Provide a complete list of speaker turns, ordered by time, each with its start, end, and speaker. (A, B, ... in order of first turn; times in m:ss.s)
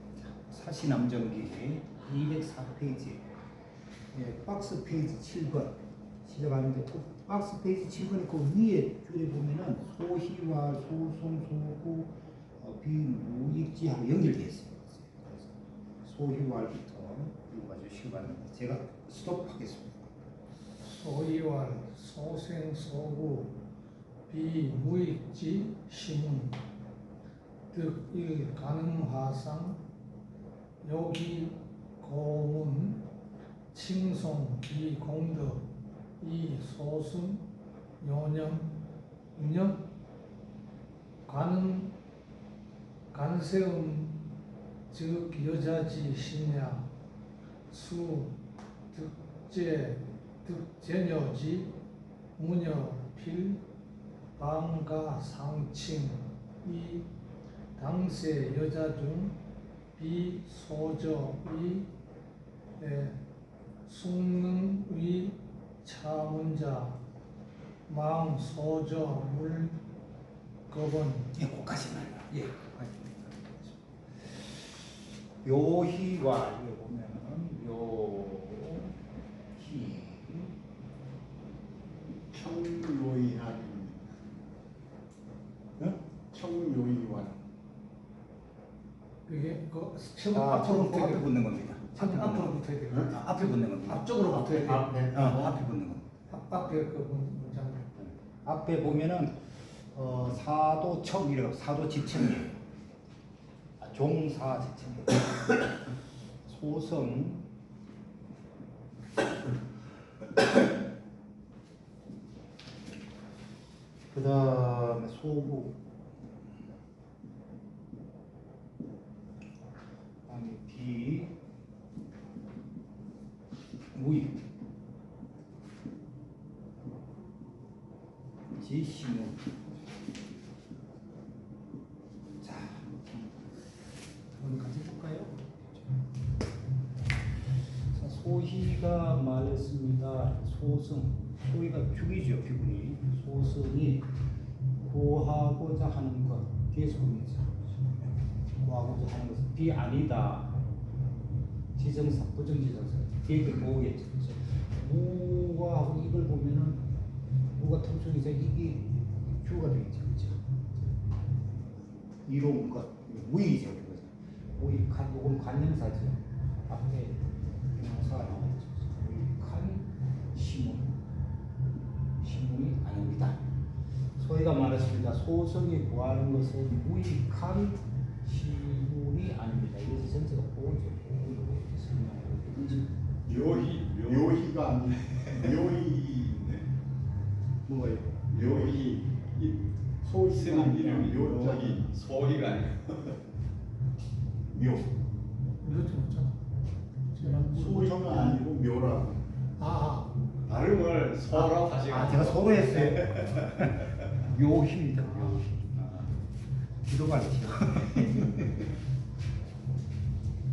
0:00.2-0:03.2 A
0:04.1-0:20.2 A
0:20.8-0:23.6 B
0:24.3-0:26.6 B
0:27.7-0:29.8 B
0:30.8-0:33.1 B
0:33.7-0:35.7 B
0:36.2-0:37.4 B
0:38.0-0:38.8 B
0:39.4-0:39.9 B
0:41.3-0:41.9 B
0:43.1-0:44.3 B
0:44.9-0:46.9 B
0:47.7-0:48.4 B
0:48.9-0:51.8 B
0:52.4-0:53.6 B
0:54.4-0:57.1 B
0:57.8-0:59.4 B
1:00.0-1:01.9 B
1:02.8-1:03.2 B
1:03.9-1:07.0 B
1:07.9-1:09.8 B
1:10.7-1:11.3 B
1:11.3-1:14.4 A
1:15.4-1:19.0 A
1:19.6-1:20.6 A
1:22.3-1:24.2 C
1:26.3-1:27.4 C
1:29.3-1:31.3 B
1:30.3-1:36.1 A
1:31.9-1:33.3 B
1:33.9-1:35.3 B
1:34.5-1:35.3 C
1:36.3-1:37.9 B
1:38.0-1:42.6 A
1:43.8-1:45.7 A
1:46.4-1:47.4 A
1:54.1-1:55.8 A
2:00.3-2:01.3 A
2:04.0-2:04.4 A
2:08.5-2:09.8 A
2:12.4-2:13.6 A
2:14.3-2:15.9 A
2:17.9-2:24.1 A
2:24.8-2:30.6 A
2:31.8-2:36.8 A
2:37.6-2:40.4 A
2:42.3-2:47.2 A
2:47.7-2:51.0 A
2:52.2-2:53.4 A
2:54.2-3:02.9 A
3:03.3-3:06.7 C
3:03.6-3:04.0 D
3:07.7-3:08.8 A
3:08.3-3:12.0 C
3:10.4-3:11.8 A
3:10.6-3:13.1 D
3:14.5-3:14.9 C
3:15.6-3:16.4 B
3:17.1-3:18.4 B
3:17.3-3:19.2 C
3:19.6-3:20.1 B
3:20.5-3:23.4 D
3:21.3-3:26.2 A
3:26.8-3:28.7 A